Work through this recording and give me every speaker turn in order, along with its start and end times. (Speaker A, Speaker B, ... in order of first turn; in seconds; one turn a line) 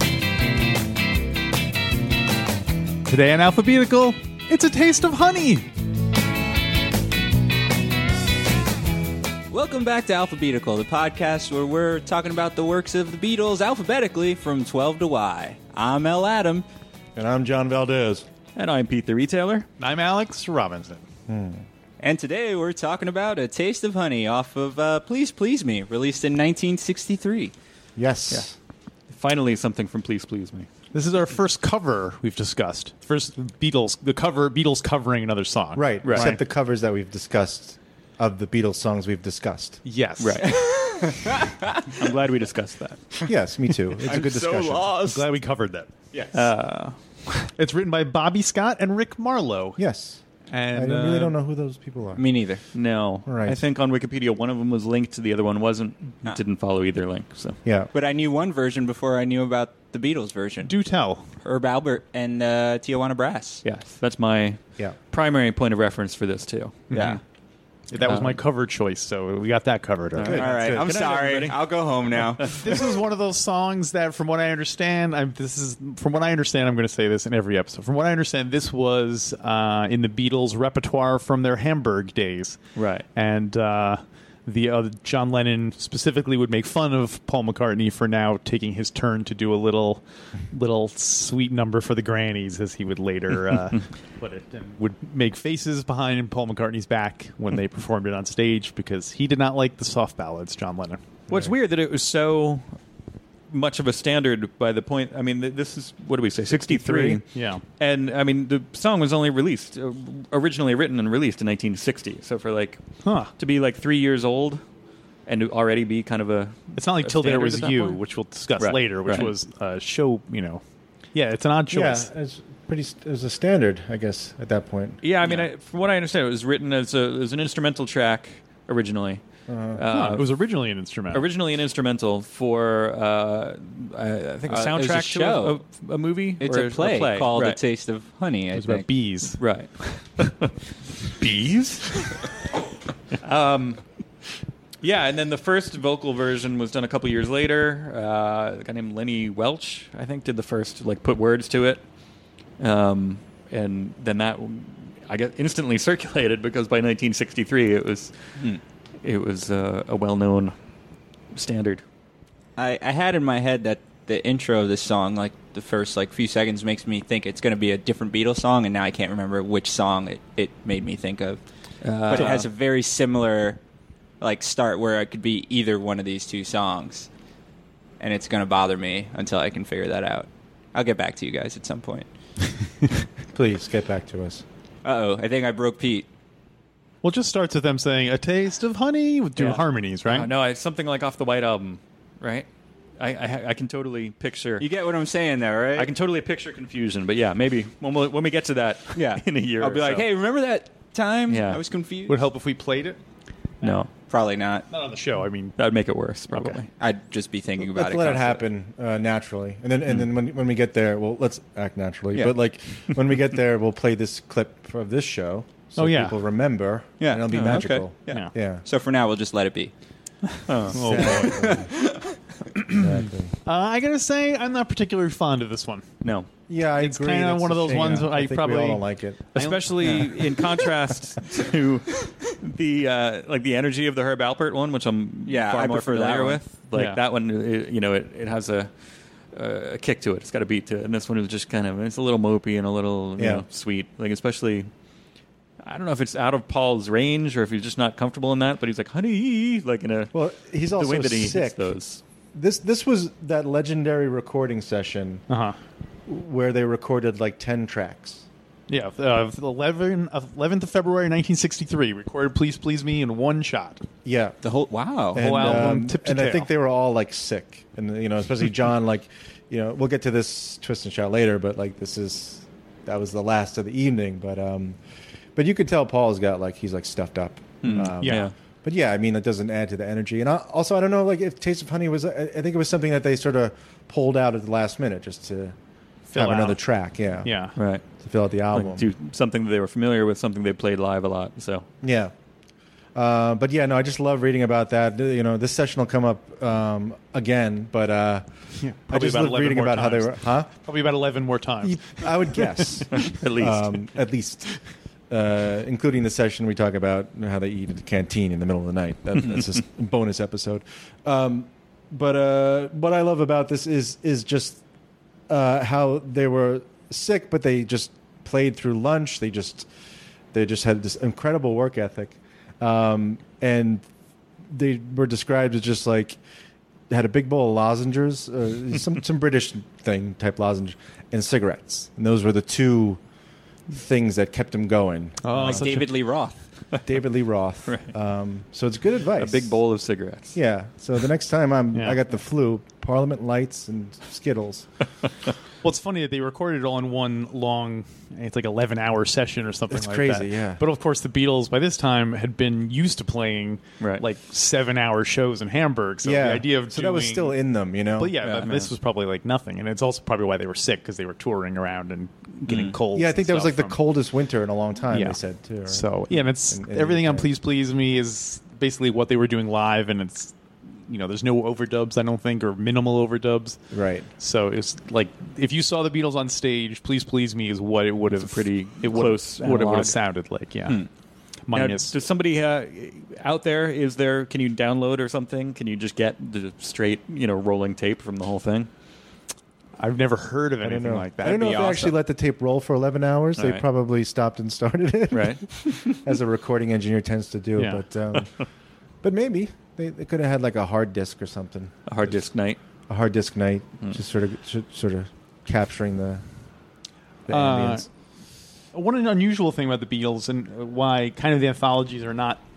Speaker A: 3.0-5.7
Speaker B: 9.5-16.6
Speaker C: 17.1-18.2
Speaker D: 18.6-19.7
Speaker A: 19.8-21.0
Speaker C: 21.3-21.6
Speaker B: 22.0-27.5
Speaker C: 27.9-28.5
Speaker D: 29.1-30.7
Speaker A: 30.9-36.4
Speaker C: 35.7-39.8
Speaker D: 36.0-36.3
Speaker A: 39.8-40.5
Speaker D: 40.2-40.6
Speaker B: 40.4-42.0
Speaker D: 41.9-43.0
Speaker C: 43.2-45.0
Speaker B: 44.0-45.2
Speaker A: 45.0-45.9
Speaker B: 46.1-46.4
Speaker D: 46.3-47.0
Speaker A: 47.4-49.8
Speaker C: 49.8-52.2
Speaker A: 50.5-51.3
Speaker B: 52.1-52.6
Speaker D: 52.7-57.6
Speaker C: 53.2-53.6
Speaker C: 57.6-57.9
Speaker B: 57.9-60.7
Speaker A: 60.6-61.2
Speaker B: 61.4-63.6
Speaker D: 63.6-67.0
Speaker A: 66.9-67.2
Speaker B: 66.9-67.2
Speaker A: 67.9-70.4
Speaker D: 68.0-68.4
Speaker D: 70.2-72.8
Speaker C: 70.2-70.9
Speaker B: 70.3-72.7
Speaker A: 72.6-82.6
Speaker D: 82.8-83.0
Speaker A: 83.1-101.0
Speaker D: 101.3-102.8
Speaker D: 103.5-114.6
Speaker A: 106.4-107.6
Speaker A: 113.0-113.3
Speaker D: 115.2-118.0
Speaker A: 116.7-120.6
Speaker D: 118.6-119.3
Speaker A: 121.1-122.1
Speaker C: 121.7-125.0
Speaker D: 125.0-129.2
Speaker C: 129.5-129.8
Speaker D: 129.7-130.3
Speaker A: 129.9-131.2
Speaker D: 131.1-137.6
Speaker B: 134.5-135.6
Speaker B: 136.4-138.9
Speaker A: 138.5-139.4
Speaker D: 139.4-140.5
Speaker A: 141.2-141.8
Speaker D: 143.2-143.8
Speaker D: 144.8-151.8
Speaker D: 152.6-158.1
Speaker D: 159.0-160.5
Speaker D: 161.3-161.8
Speaker B: 162.6-171.4
Speaker D: 171.8-172.5
Speaker B: 172.0-173.6
Speaker B: 174.2-177.1
Speaker B: 178.0-182.1
Speaker C: 183.3-184.4
Speaker B: 184.8-186.1
Speaker A: 187.0-190.3
Speaker D: 189.4-194.7
Speaker B: 194.6-195.9
Speaker D: 195.8-200.1
Speaker B: 198.9-202.2
Speaker D: 201.3-201.6
Speaker A: 202.1-203.0
Speaker D: 203.6-203.9
Speaker B: 203.9-204.7
Speaker A: 204.7-205.6
Speaker D: 205.6-206.7
Speaker B: 206.7-208.4
Speaker C: 207.6-218.6
Speaker A: 215.8-216.2
Speaker B: 217.0-219.7
Speaker D: 217.3-217.6
Speaker D: 220.4-220.9
Speaker A: 220.6-221.6
Speaker C: 220.7-221.7
Speaker B: 221.2-222.1
Speaker A: 222.6-222.8
Speaker C: 222.6-223.3
Speaker A: 223.4-225.8
Speaker D: 226.0-226.3
Speaker C: 226.5-229.3
Speaker A: 226.8-230.7
Speaker D: 229.3-238.7
Speaker B: 235.2-236.4
Speaker A: 236.7-237.0
Speaker D: 239.3-244.7
Speaker C: 243.2-243.4
Speaker D: 245.6-250.2
Speaker C: 250.1-251.7
Speaker D: 250.7-252.0
Speaker C: 252.3-255.2
Speaker A: 255.3-255.6
Speaker C: 256.1-258.2
Speaker A: 258.7-263.8
Speaker C: 264.0-264.4
Speaker B: 264.4-265.7
Speaker C: 265.1-274.8
Speaker A: 265.2-266.5
Speaker C: 275.3-285.5
Speaker B: 277.6-277.9
Speaker D: 277.7-278.3
Speaker A: 278.0-278.3
Speaker A: 286.1-286.6
Speaker C: 286.1-288.9
Speaker A: 287.2-287.5
Speaker D: 287.6-287.8
Speaker D: 288.5-291.6
Speaker C: 291.8-292.1
Speaker C: 292.9-300.5
Speaker A: 298.6-302.7
Speaker C: 301.6-314.6
Speaker D: 302.9-303.8
Speaker C: 315.3-319.7
Speaker C: 320.3-323.8
Speaker C: 324.5-326.2
Speaker C: 326.9-333.0
Speaker C: 333.7-335.9
Speaker A: 335.2-335.9
Speaker B: 335.4-336.4
Speaker C: 336.8-339.6
Speaker D: 337.6-337.9
Speaker D: 339.2-340.4
Speaker C: 340.3-344.7
Speaker A: 341.7-342.0
Speaker A: 345.6-357.4
Speaker C: 349.7-350.6
Speaker C: 356.0-358.1
Speaker A: 358.0-363.8
Speaker D: 358.2-358.7
Speaker B: 362.5-362.8
Speaker C: 362.9-367.3
Speaker A: 364.9-370.3
Speaker A: 370.9-373.6
Speaker C: 373.7-374.1
Speaker A: 374.2-380.9
Speaker D: 378.1-379.9
Speaker A: 381.5-381.9
Speaker D: 381.5-388.7
Speaker A: 389.8-391.9
Speaker C: 390.6-398.3
Speaker B: 391.2-391.8
Speaker D: 393.4-393.6
Speaker D: 395.1-395.9
Speaker A: 397.6-397.8
Speaker C: 399.0-402.2
Speaker D: 401.9-402.6
Speaker C: 402.9-406.2
Speaker C: 407.3-407.9
Speaker A: 407.3-407.9
Speaker A: 408.7-412.4